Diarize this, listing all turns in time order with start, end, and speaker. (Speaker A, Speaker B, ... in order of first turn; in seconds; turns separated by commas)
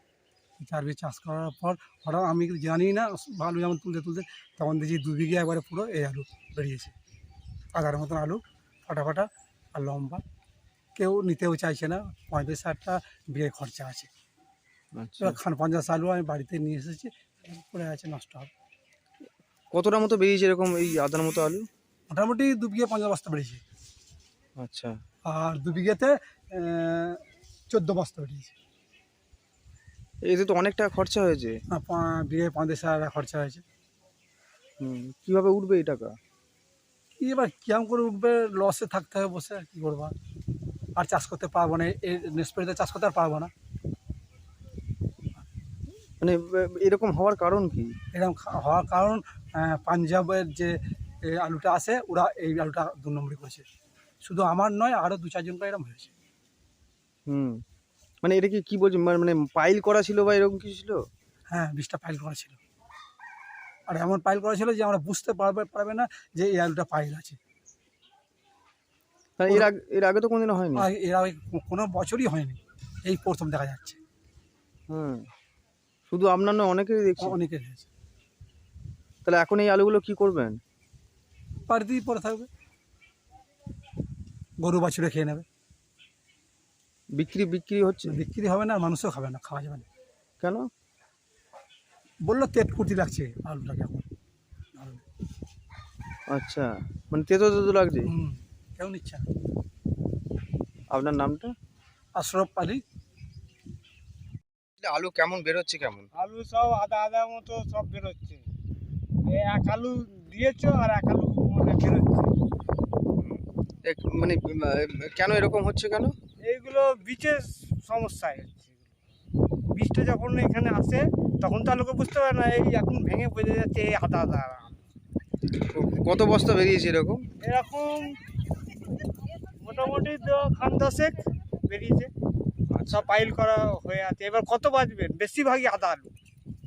Speaker A: 0.6-6.9, Speaker A: 7.7-10.2, Speaker A: 10.9-14.1, Speaker B: 14.9-15.4, Speaker A: 15.2-18.5, Speaker B: 19.7-21.7, Speaker A: 22.1-23.6, Speaker B: 24.6-24.9, Speaker A: 25.3-27.2, Speaker A: 27.7-28.5, Speaker B: 30.2-31.6, Speaker A: 31.7-33.6, Speaker B: 34.8-36.1, Speaker A: 37.2-40.1, Speaker A: 41.0-43.5, Speaker B: 46.2-47.9, Speaker A: 48.1-50.8, Speaker A: 51.3-53.6, Speaker A: 54.2-56.1, Speaker B: 57.3-57.5, Speaker B: 58.2-61.0, Speaker A: 61.5-62.6, Speaker A: 63.9-67.4, Speaker B: 69.4-70.8, Speaker A: 70.8-74.0, Speaker B: 74.9-75.2, Speaker B: 76.1-77.3, Speaker A: 77.2-77.9, Speaker B: 79.2-80.6, Speaker A: 81.7-82.5, Speaker A: 84.6-85.5, Speaker B: 87.2-88.2, Speaker A: 88.0-89.8, Speaker A: 92.2-94.1, Speaker A: 94.8-95.0, Speaker B: 96.3-98.1, Speaker A: 98.1-99.2, Speaker B: 100.9-101.5, Speaker A: 102.2-102.8, Speaker B: 104.8-106.1, Speaker C: 106.2-108.4, Speaker C: 109.2-112.3, Speaker B: 113.2-116.1, Speaker C: 116.4-118.9, Speaker C: 119.7-124.7, Speaker B: 125.7-127.2, Speaker C: 127.4-128.1, Speaker C: 129.6-131.1, Speaker C: 131.7-132.1, Speaker B: 132.7-133.1, Speaker C: 132.9-136.1